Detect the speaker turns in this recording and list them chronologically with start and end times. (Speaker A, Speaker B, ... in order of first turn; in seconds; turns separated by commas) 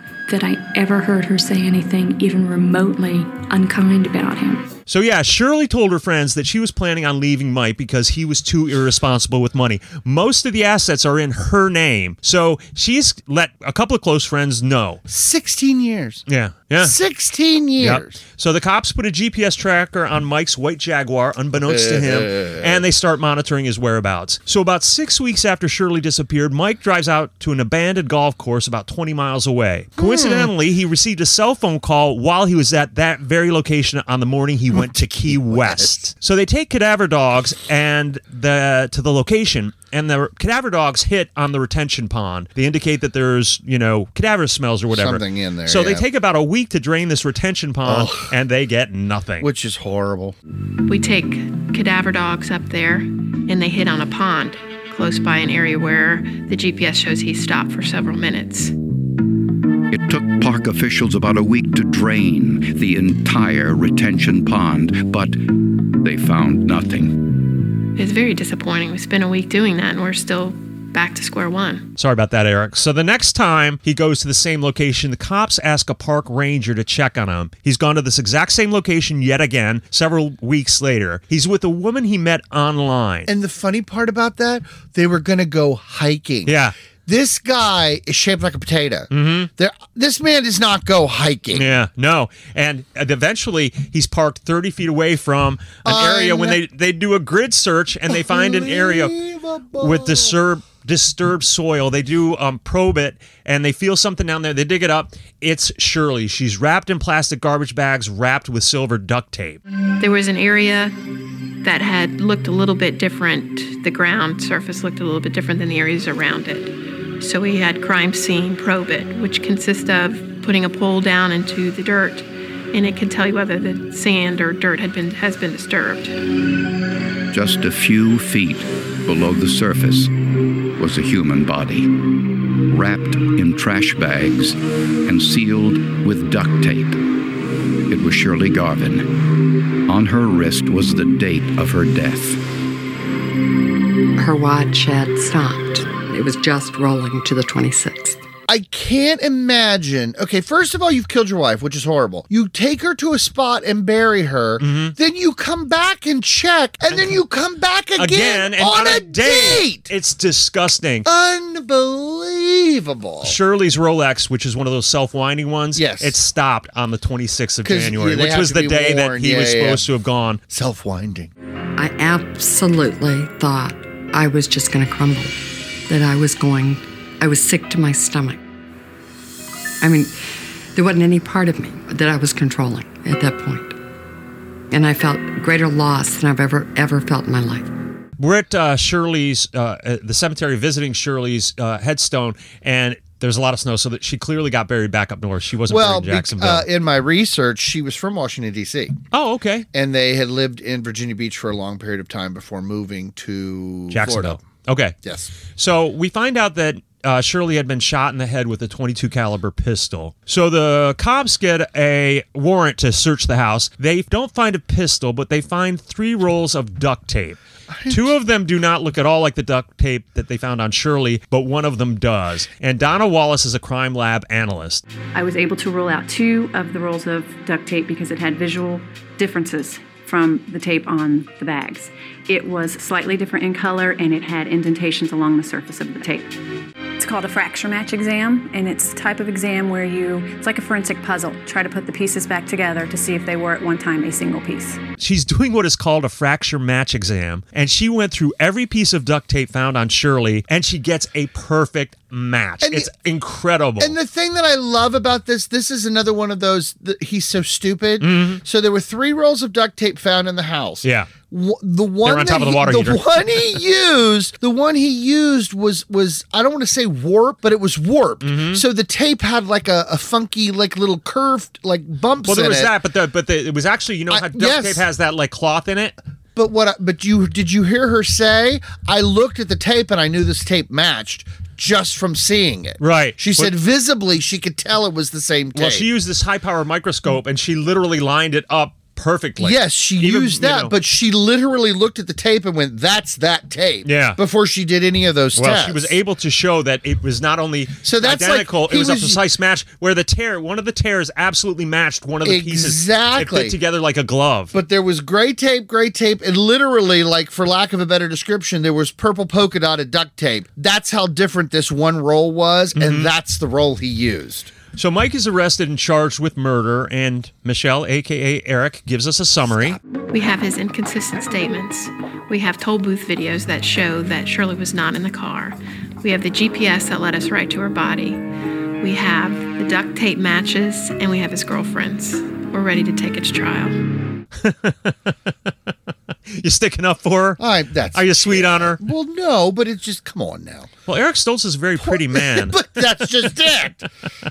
Speaker A: 0.3-4.7, Speaker B: 4.9-15.0, Speaker C: 15.1-16.2, Speaker B: 16.3-16.9, Speaker C: 16.8-18.2, Speaker B: 17.8-49.5, Speaker C: 21.6-22.8, Speaker C: 30.0-30.5, Speaker C: 34.7-36.1, Speaker C: 44.9-46.0, Speaker C: 47.8-48.3, Speaker C: 49.4-50.3, Speaker D: 50.9-58.7, Speaker E: 59.9-67.2, Speaker D: 68.0-71.9, Speaker B: 72.0-83.3, Speaker C: 83.3-91.7, Speaker B: 86.5-86.7, Speaker B: 89.1-89.5, Speaker B: 91.5-99.2, Speaker C: 95.8-96.6, Speaker C: 98.1-100.3, Speaker B: 99.8-109.6, Speaker D: 110.0-110.9, Speaker D: 111.6-126.2, Speaker E: 127.3-130.1, Speaker E: 130.8-131.9, Speaker E: 132.7-137.0, Speaker E: 137.9-139.1, Speaker E: 139.9-142.4, Speaker F: 144.2-148.2, Speaker C: 148.5-159.9, Speaker B: 154.6-154.9, Speaker B: 156.9-157.2, Speaker B: 158.0-161.1, Speaker C: 161.0-163.3, Speaker B: 163.2-170.4, Speaker C: 165.7-166.2, Speaker C: 167.6-169.8, Speaker C: 170.5-171.3, Speaker F: 171.8-175.3, Speaker F: 175.9-178.4, Speaker F: 179.8-180.1, Speaker F: 180.7-183.8, Speaker F: 184.7-187.7, Speaker B: 188.2-196.7, Speaker C: 195.7-199.0, Speaker B: 199.1-199.7, Speaker C: 199.7-204.4, Speaker B: 203.9-204.9, Speaker C: 205.0-205.3, Speaker B: 205.6-224.8, Speaker C: 217.7-218.1, Speaker G: 225.1-236.3, Speaker G: 237.0-244.8, Speaker B: 245.0-253.9, Speaker C: 252.6-252.9, Speaker C: 253.8-272.7, Speaker B: 258.0-258.4, Speaker B: 260.8-261.1, Speaker B: 262.0-263.5, Speaker B: 268.2-268.6, Speaker B: 272.2-275.9, Speaker C: 274.1-274.8, Speaker C: 276.4-285.9, Speaker B: 282.8-283.5, Speaker B: 285.5-290.7, Speaker C: 289.4-295.9, Speaker B: 293.8-294.2, Speaker B: 295.3-304.5, Speaker C: 297.8-299.2, Speaker C: 302.2-303.6, Speaker C: 304.5-314.5, Speaker B: 312.7-313.1, Speaker B: 314.7-319.8, Speaker D: 320.1-328.2, Speaker D: 328.8-333.8, Speaker B: 334.4-335.7, Speaker B: 336.3-337.4, Speaker C: 337.4-340.7, Speaker B: 337.9-338.8, Speaker B: 340.9-343.3, Speaker C: 341.8-343.9